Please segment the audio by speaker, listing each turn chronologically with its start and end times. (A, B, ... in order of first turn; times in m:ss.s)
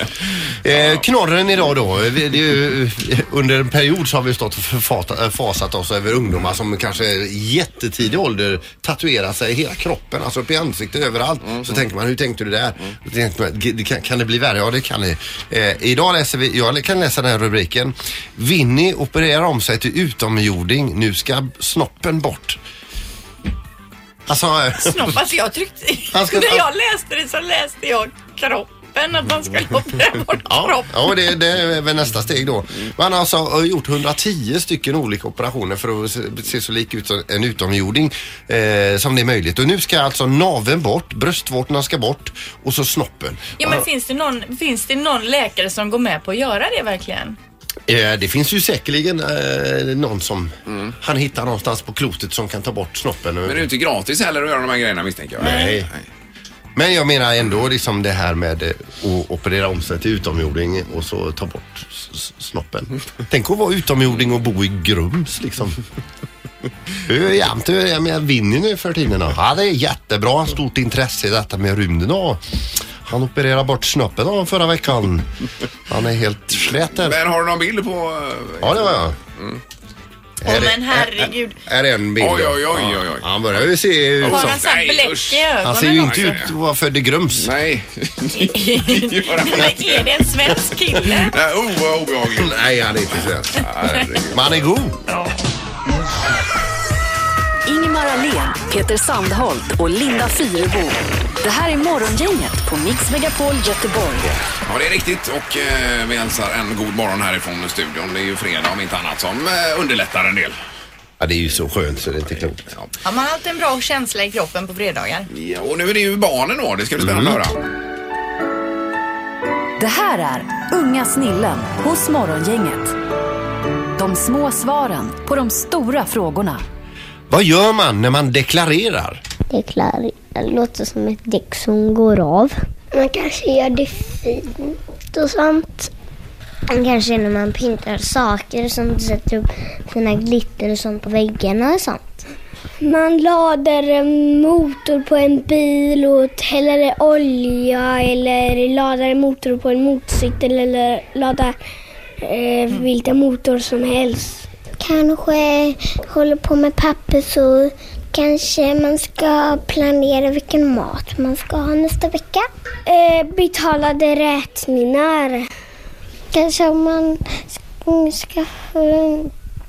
0:00.6-0:22.6 A
0:24.3-0:25.1 A
0:24.8-0:31.2 B
0:26.1-0:26.7 A
0:30.5-0:43.8 A
0:43.6-0:47.4 B
0:47.9-0:53.7 A
0:50.7-0:50.9 C
0:53.4-0:56.1 C
0:55.4-0:55.9 A
0:56.8-1:05.8 A
1:07.1-1:12.4 A
1:13.0-1:15.3 A
1:15.9-1:17.2 A
1:17.0-1:19.6 C
1:18.6-1:19.2 A
1:20.4-1:24.6 A
1:20.4-1:21.6 B
1:22.2-1:23.6 C
1:24.2-1:26.5 C
1:24.3-1:26.4 B
1:25.6-1:27.5 A
1:27.4-1:30.1 C
1:28.3-1:31.3 B
1:31.2-1:32.6 C
1:32.4-1:33.7 A
1:33.5-1:34.6 C
1:34.3-1:35.0 A
1:37.7-1:44.3 D
1:44.7-1:50.6 C
1:51.2-1:52.6 A
1:52.4-1:52.9 C
1:53.0-1:55.3 B
1:55.3-1:57.6 C
1:57.0-1:57.4 A
1:59.8-2:03.0 D
2:04.0-2:06.6 D
2:07.3-2:09.2 A
2:09.5-2:15.9 E
2:16.7-2:22.2 E
2:22.8-2:31.6 E
2:32.2-2:45.5 E
2:46.3-2:49.3 E